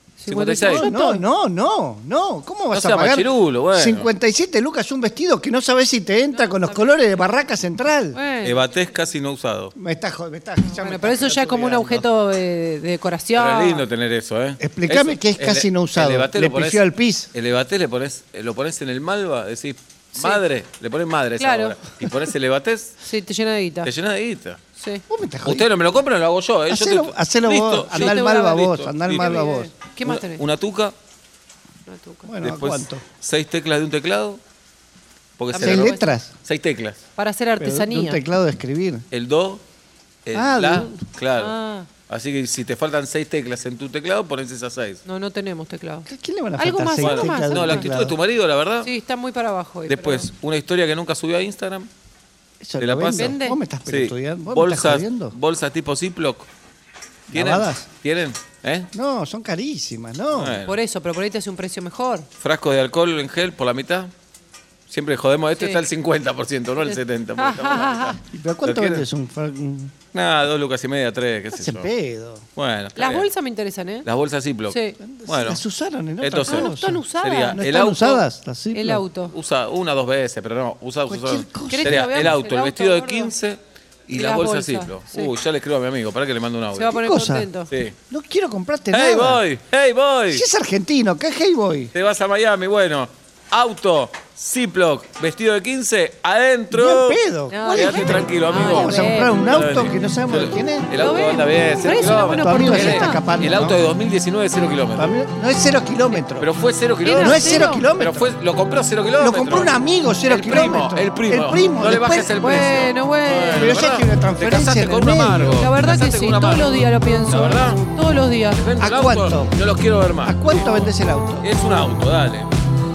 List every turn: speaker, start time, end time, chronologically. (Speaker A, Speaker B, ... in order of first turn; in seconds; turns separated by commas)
Speaker A: 0.2-1.2, Speaker B: 0.3-0.9, Speaker C: 0.6-8.2, Speaker B: 2.7-4.1, Speaker A: 6.3-7.2, Speaker A: 8.1-8.7, Speaker B: 8.4-9.7, Speaker C: 9.8-12.1, Speaker A: 10.6-13.8, Speaker B: 13.3-22.9, Speaker C: 14.6-17.3, Speaker A: 21.4-21.8, Speaker A: 23.0-23.9, Speaker B: 23.8-24.6, Speaker A: 24.8-25.0, Speaker C: 25.1-25.7, Speaker B: 25.4-29.4, Speaker C: 26.7-29.7, Speaker A: 27.9-30.4, Speaker B: 30.0-30.9, Speaker A: 31.9-32.3, Speaker C: 32.2-33.0, Speaker B: 32.4-34.4, Speaker B: 35.4-37.0, Speaker A: 35.5-36.1, Speaker C: 35.6-36.3, Speaker A: 37.2-38.2, Speaker C: 37.6-39.0, Speaker B: 39.1-39.6, Speaker B: 40.3-41.5, Speaker C: 40.3-41.0, Speaker A: 41.4-41.9, Speaker B: 42.1-45.0, Speaker A: 45.0-47.9, Speaker C: 46.1-48.2, Speaker B: 47.0-48.9, Speaker A: 48.8-50.3, Speaker B: 49.9-51.9, Speaker C: 52.6-55.4, Speaker B: 52.8-56.5, Speaker A: 53.1-53.6, Speaker C: 57.3-57.9, Speaker B: 57.3-58.9, Speaker C: 58.9-60.6, Speaker B: 60.3-60.8, Speaker A: 60.6-62.3, Speaker B: 62.4-64.1, Speaker B: 64.9-69.1, Speaker A: 65.6-65.8, Speaker A: 66.8-68.2, Speaker C: 68.3-69.9, Speaker B: 70.1-71.9, Speaker C: 71.5-72.5, Speaker B: 72.6-73.3, Speaker A: 73.0-74.1, Speaker B: 74.0-75.6, Speaker A: 74.7-75.0, Speaker C: 75.0-79.0, Speaker B: 76.2-78.2, Speaker A: 76.5-77.6, Speaker A: 78.7-79.3, Speaker B: 79.3-87.0, Speaker C: 81.1-82.4, Speaker A: 81.7-83.3, Speaker A: 84.1-85.3, Speaker A: 86.8-87.7, Speaker C: 86.9-87.5, Speaker B: 87.7-88.0, Speaker C: 88.1-89.4, Speaker B: 88.9-90.5, Speaker C: 90.3-91.9, Speaker B: 91.9-97.2, Speaker C: 96.7-100.9, Speaker A: 97.5-99.5, Speaker B: 97.7-105.1, Speaker A: 101.0-103.3, Speaker C: 102.4-103.8, Speaker C: 105.0-106.5, Speaker B: 106.4-117.8, Speaker A: 107.0-107.9, Speaker C: 107.2-108.3, Speaker C: 109.1-112.3, Speaker A: 112.4-113.8, Speaker C: 113.5-115.5, Speaker A: 115.4-118.6, Speaker B: 118.5-120.9, Speaker C: 118.8-119.5, Speaker C: 120.2-121.5, Speaker B: 121.4-122.5